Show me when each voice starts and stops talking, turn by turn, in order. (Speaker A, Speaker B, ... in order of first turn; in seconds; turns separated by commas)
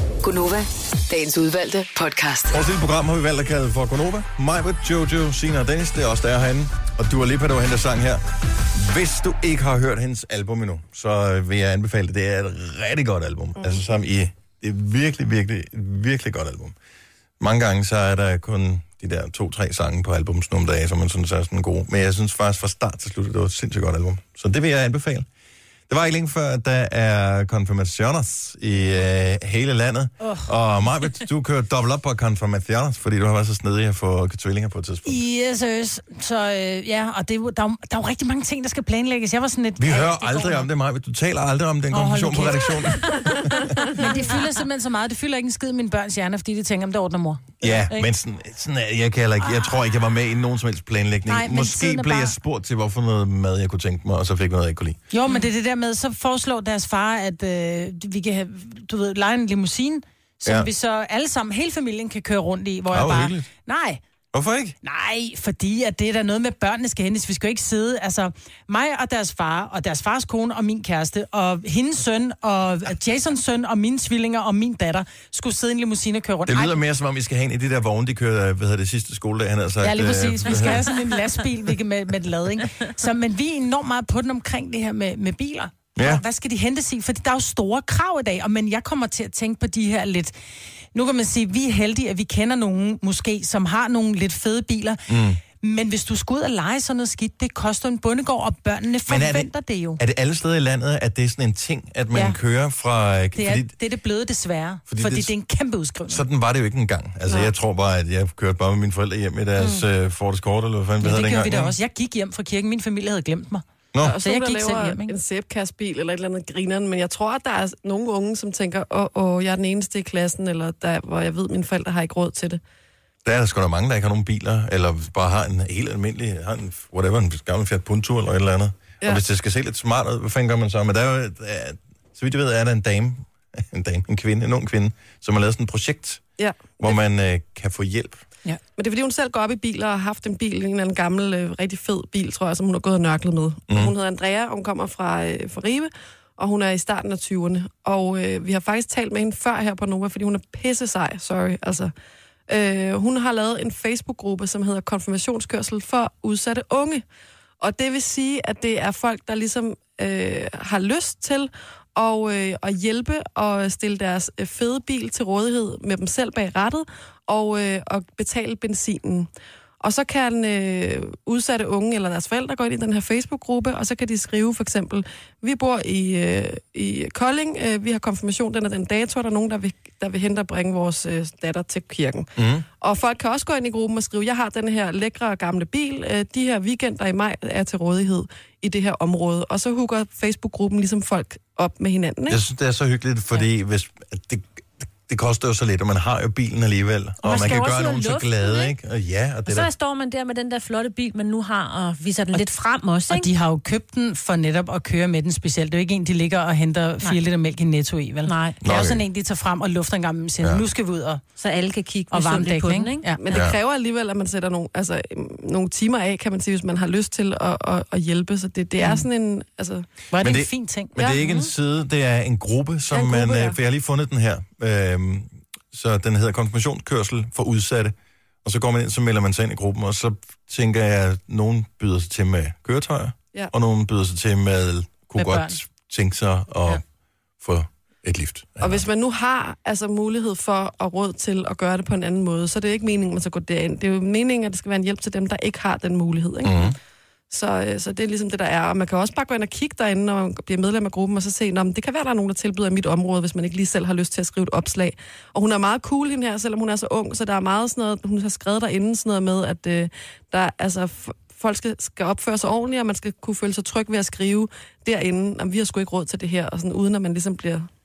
Speaker A: 0.2-2.6, Speaker B: 2.5-16.8, Speaker B: 17.4-25.3, Speaker B: 25.9-35.2, Speaker C: 30.2-30.5, Speaker C: 35.0-40.7, Speaker B: 39.8-44.0, Speaker C: 41.9-48.1, Speaker B: 47.6-55.0, Speaker C: 51.3-52.4, Speaker C: 55.1-64.0, Speaker B: 62.9-63.5, Speaker B: 64.3-64.8, Speaker C: 64.8-76.8, Speaker B: 76.5-80.9, Speaker C: 79.8-90.3, Speaker B: 86.0-86.2, Speaker C: 90.9-95.1, Speaker B: 95.1-95.4, Speaker C: 95.6-100.0, Speaker B: 99.1-103.7, Speaker C: 102.1-102.4, Speaker C: 103.3-106.2, Speaker B: 104.9-105.3, Speaker B: 106.1-111.8, Speaker C: 111.0-115.2, Speaker B: 113.9-114.2, Speaker D: 114.0-122.6, Speaker B: 123.2-136.2, Speaker D: 136.4-137.0, Speaker B: 136.8-138.2, Speaker D: 138.8-151.9, Speaker D: 152.5-157.0, Speaker D: 157.6-169.3, Speaker D: 169.8-182.3, Speaker B: 182.4-182.7, Speaker D: 182.8-192.4, Speaker B: 192.3-199.7, Speaker E: 197.2-198.7, Speaker E: 199.5-203.3, Speaker C: 203.1-211.2, Speaker E: 208.3-208.6, Speaker B: 208.6-209.0, Speaker E: 211.4-213.1, Speaker C: 212.1-213.2, Speaker D: 213.2-219.9, Speaker B: 213.3-213.6, Speaker C: 220.1-221.1, Speaker B: 220.2-236.8, Speaker E: 221.2-221.5, Speaker D: 222.9-223.6, Speaker C: 235.2-235.6, Speaker B: 237.4-238.9, Speaker D: 238.6-246.8, Speaker B: 246.4-246.8, Speaker D: 247.3-267.7